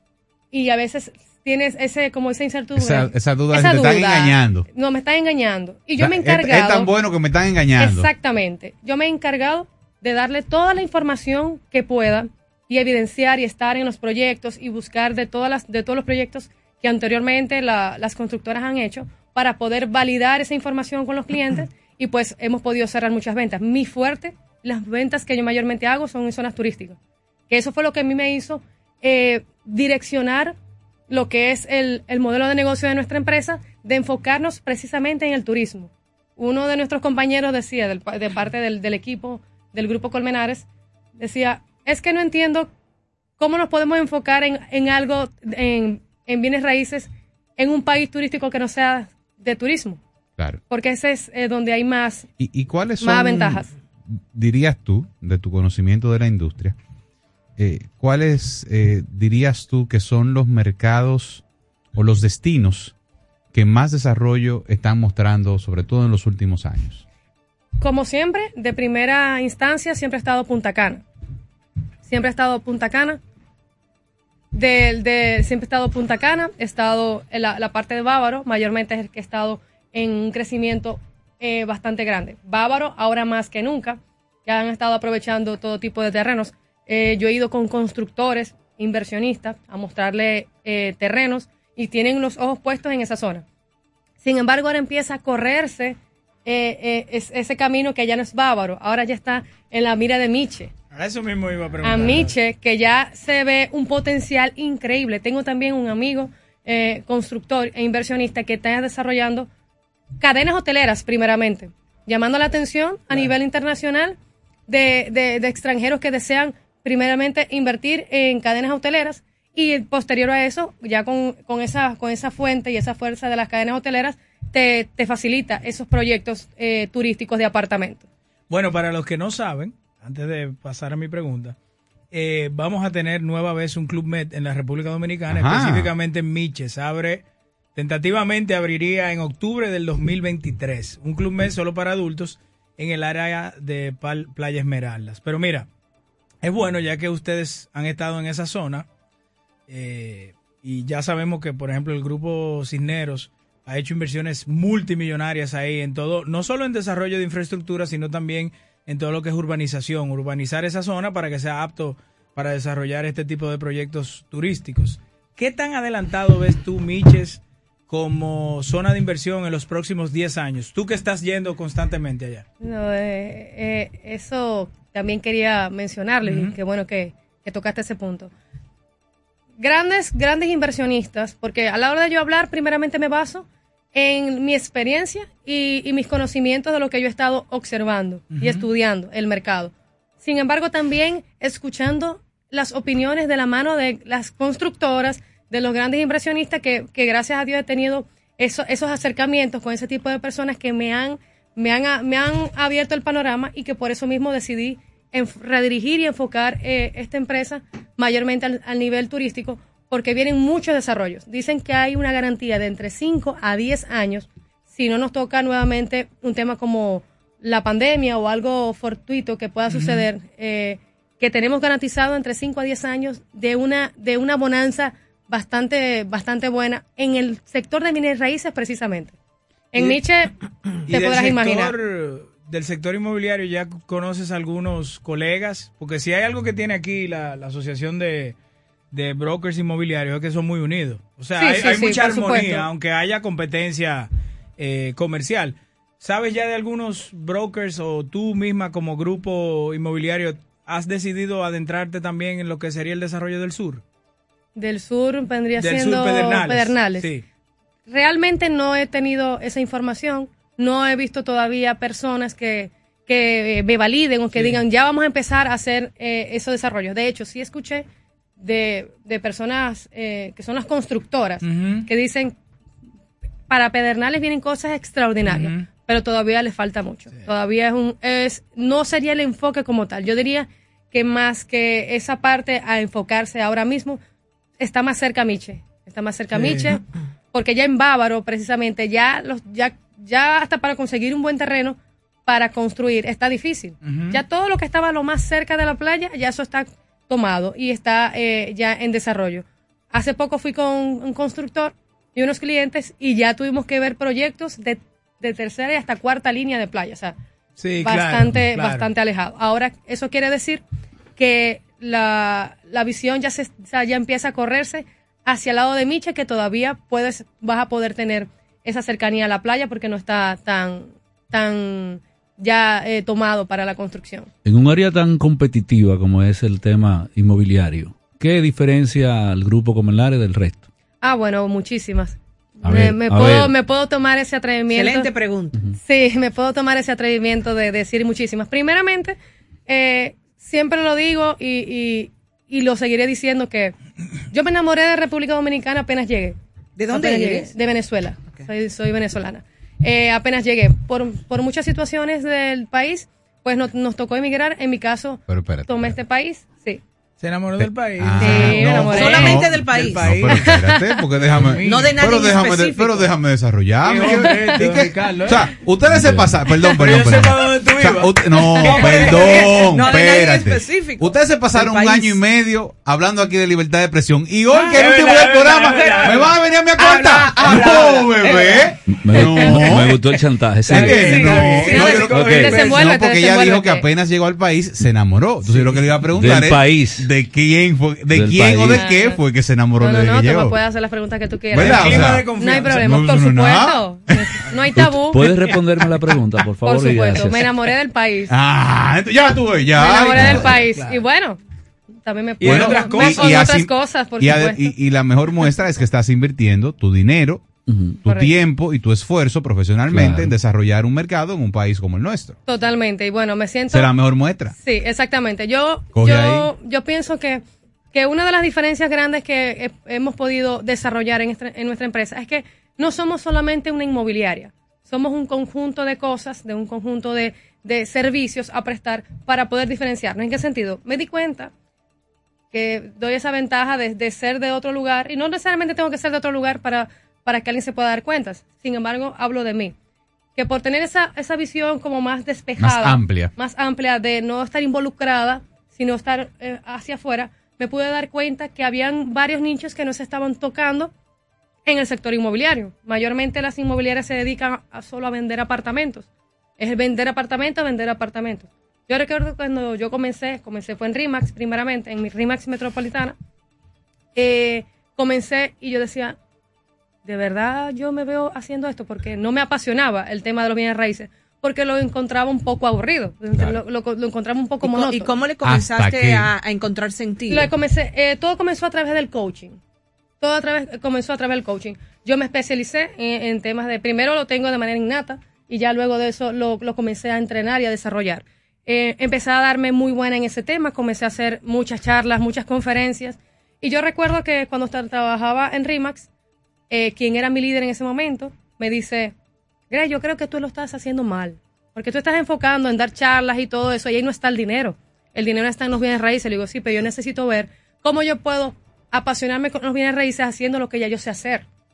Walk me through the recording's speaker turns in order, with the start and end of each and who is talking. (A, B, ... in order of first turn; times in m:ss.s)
0:00.5-0:06.9 A
0:02.8-0:04.7 B
0:06.0-0:08.1 B
0:07.8-0:27.0 A
0:27.5-0:30.6 A
0:31.1-0:40.7 A
0:41.2-0:42.7 A
0:43.4-0:50.0 A
0:50.7-0:52.3 A
0:52.4-0:56.8 B
0:53.0-0:53.7 A
0:57.6-1:01.4 B
1:02.0-1:03.0 B
1:03.5-1:07.0 B
1:07.8-1:11.0 A
1:12.0-1:13.2 A
1:14.5-1:33.4 A
1:34.2-1:40.7 A
1:40.9-1:42.3 C
1:41.8-1:49.5 A
1:50.2-2:08.1 A
2:08.5-2:11.6 C
2:12.1-2:17.2 C
2:15.3-2:15.9 B
2:17.8-2:25.7 C
2:26.4-2:28.9 C
2:29.7-2:52.5 C
2:52.6-2:58.3 A
2:56.3-2:56.6 C
2:59.6-3:49.2 A
3:08.3-3:08.6 C
3:39.7-3:40.1 C
3:49.7-3:50.3 A
3:50.9-3:58.4 C
3:50.9-3:51.8 A
3:58.9-4:13.8 C
4:01.4-4:02.7 A
4:14.6-4:17.1 A
4:15.6-4:17.2 C
4:17.9-4:27.9 A
4:24.3-4:24.6 C
4:28.4-4:32.4 A
4:31.4-4:31.9 C
4:33.5-4:44.0 A
4:35.2-4:35.7 C
4:44.6-5:07.2 A
4:46.3-4:46.8 C
4:53.8-4:54.2 C
5:07.6-5:08.9 C
5:07.8-5:10.6 A
5:11.2-5:24.3 A
5:24.4-5:30.7 D
5:31.0-5:35.1 A
5:32.6-5:33.5 D
5:34.7-5:35.6 E
5:35.8-5:39.2 A
5:39.7-5:43.7 A
5:44.3-5:46.4 A
5:46.8-5:47.5 E
5:46.9-5:56.8 A
5:55.3-5:56.0 B
5:57.2-6:00.4 C
5:57.6-6:20.0 B
5:58.2-5:59.4 A
5:58.2-6:00.2 E
6:00.4-6:01.0 A
6:01.3-6:02.0 C
6:01.6-6:03.1 E
6:03.8-6:05.5 C
6:05.9-6:06.3 D
6:06.6-6:09.7 C
6:08.6-6:12.2 E
6:14.5-6:16.4 C
6:14.6-6:15.0 E
6:15.5-6:16.2 E
6:16.8-6:18.7 E
6:18.9-6:21.1 D
6:20.7-6:30.6 B
6:20.7-6:22.9 C
6:21.0-6:21.5 E
6:21.5-6:23.8 A
6:25.5-6:25.8 C
6:26.2-6:27.1 D
6:28.1-6:28.9 D
6:28.8-6:29.2 A
6:29.8-6:35.4 A
6:31.5-6:33.0 C
6:31.5-6:33.8 B
6:34.8-6:37.5 D
6:36.6-6:38.3 A
6:38.3-6:40.6 B
6:39.8-6:41.4 A
6:40.2-6:41.0 C
6:42.0-6:44.7 A
6:42.4-6:43.5 C
6:42.4-6:47.5 B
6:47.7-6:48.0 D
6:48.0-6:52.4 B
6:48.1-6:48.3 A
6:49.9-6:50.3 D
6:52.5-6:53.9 A
6:53.7-6:54.6 B
6:54.6-7:11.5 A
6:55.9-6:56.5 B
7:12.5-7:19.7 A
7:20.4-7:30.9 A
7:22.6-7:23.3 B
7:31.7-7:36.1 A
7:36.6-7:43.2 A
7:44.2-7:46.2 A
7:47.0-7:55.1 A
7:53.3-7:53.6 B
7:54.6-7:57.5 E
7:55.4-7:56.3 B
7:57.3-7:59.6 A
8:00.2-8:16.1 A
8:16.7-8:19.1 A
8:19.7-8:31.5 A